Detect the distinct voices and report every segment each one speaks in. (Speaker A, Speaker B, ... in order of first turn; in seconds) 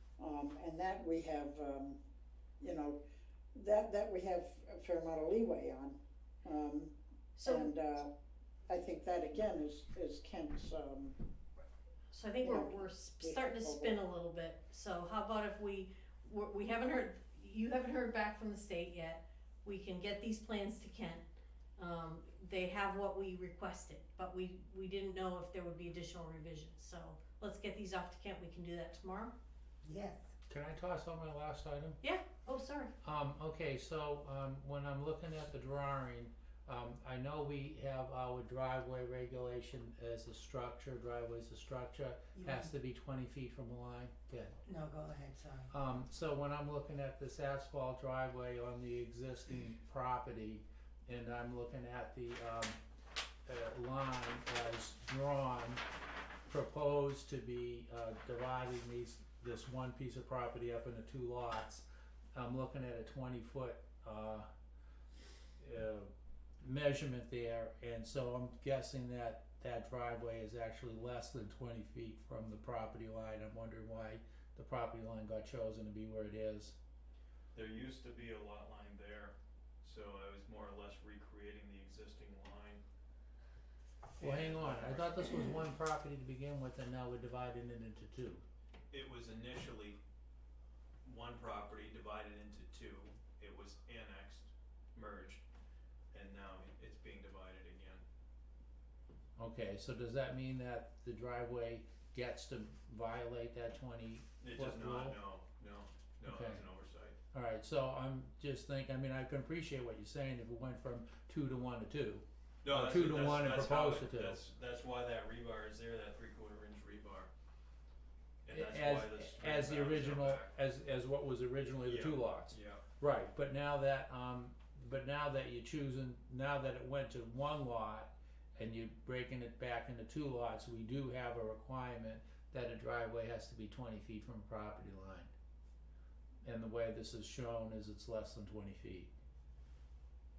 Speaker A: 0.2-2.0, 2.6-3.0, 3.5-8.1, 8.7-11.1, 12.4-13.9
Speaker B: 7.3-7.7, 12.1-21.2, 21.8-29.3, 32.0-32.9
Speaker C: 29.8-30.3, 42.4-42.7, 44.6-45.7
Speaker D: 30.5-32.0, 33.0-44.5, 45.7-52.8, 53.5-55.8, 56.5-64.5, 65.6-66.1, 66.6-76.7, 84.2-88.4, 99.4-105.2, 106.2-106.7, 107.3-114.4, 118.5-135.3, 136.4-139.1
Speaker E: 77.5-82.8, 84.2-85.6, 88.9-90.0, 91.0-95.4, 96.1-98.0, 104.4-107.2, 112.6-117.3, 118.4-120.5, 121.8-122.8